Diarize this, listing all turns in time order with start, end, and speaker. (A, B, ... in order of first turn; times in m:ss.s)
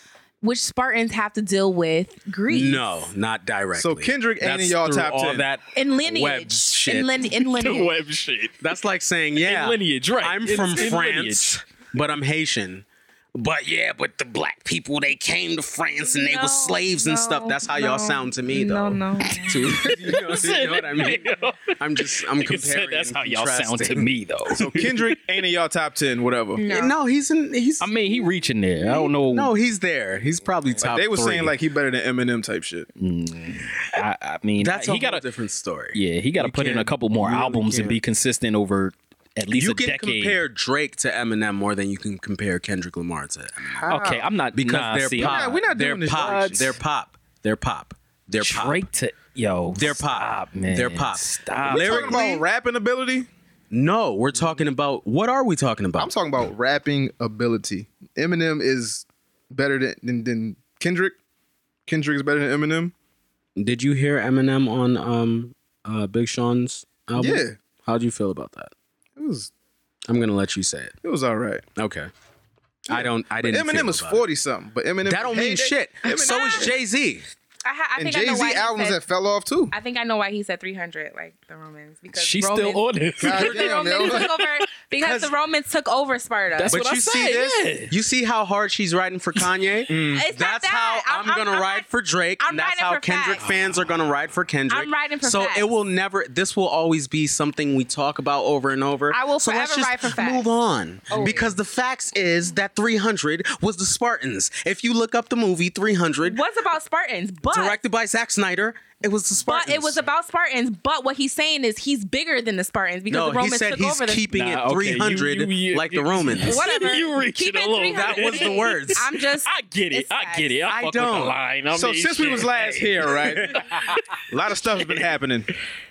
0:00.4-0:02.9 A
0:02.5-0:07.1 B
0:03.7-0:05.5 C
0:05.8-0:07.9 A
0:07.3-0:08.6 D
0:08.6-0:24.1 B
0:09.4-0:11.6 D
0:16.1-0:19.6 A
0:19.5-0:25.0 D
0:24.5-0:26.6 C
0:26.6-0:27.0 A
0:26.7-0:27.9 B
0:27.8-0:29.5 D
0:28.8-0:31.5 B
0:30.8-0:32.9 C
0:33.0-0:35.2 D
0:34.6-0:38.0 B
0:35.9-0:40.4 D
0:39.5-0:44.0 B
0:43.7-0:44.3 C
0:43.9-0:46.7 D
0:44.5-0:48.8 B
0:45.2-0:46.7 C
0:48.4-0:52.2 D
0:49.7-0:52.4 B
0:51.7-0:53.3 C
0:53.7-0:56.1 B
0:56.0-1:01.2 C
1:01.9-1:02.9 C
1:03.6-1:08.7 B
1:07.2-1:07.6 C
1:09.2-1:09.5 C
1:10.1-1:11.0 B
1:11.0-1:11.6 C
1:11.8-1:12.1 B
1:12.9-1:14.2 B
1:12.9-1:16.7 C
1:15.1-1:17.3 B
1:17.6-1:19.0 A
1:18.0-1:19.7 C
1:19.7-1:26.8 A
1:22.1-1:24.5 D
1:23.2-1:24.3 C
1:25.0-1:25.3 B
1:26.6-1:27.9 D
1:26.7-1:46.4 B
1:29.9-1:30.3 C
1:30.1-1:31.9 A
1:32.4-1:33.4 A
1:34.7-1:35.7 A
1:39.1-1:40.5 A
1:41.1-1:41.5 C
1:41.1-1:41.5 A
1:46.2-1:47.8 A
1:47.5-1:50.0 B
1:49.4-1:54.2 A
1:53.1-1:56.6 B
1:54.3-2:04.2 D
1:56.4-2:00.6 A
1:57.9-1:59.0 B
2:00.7-2:01.4 B
2:01.7-2:03.6 C
2:04.3-2:05.5 C
2:04.8-2:05.1 D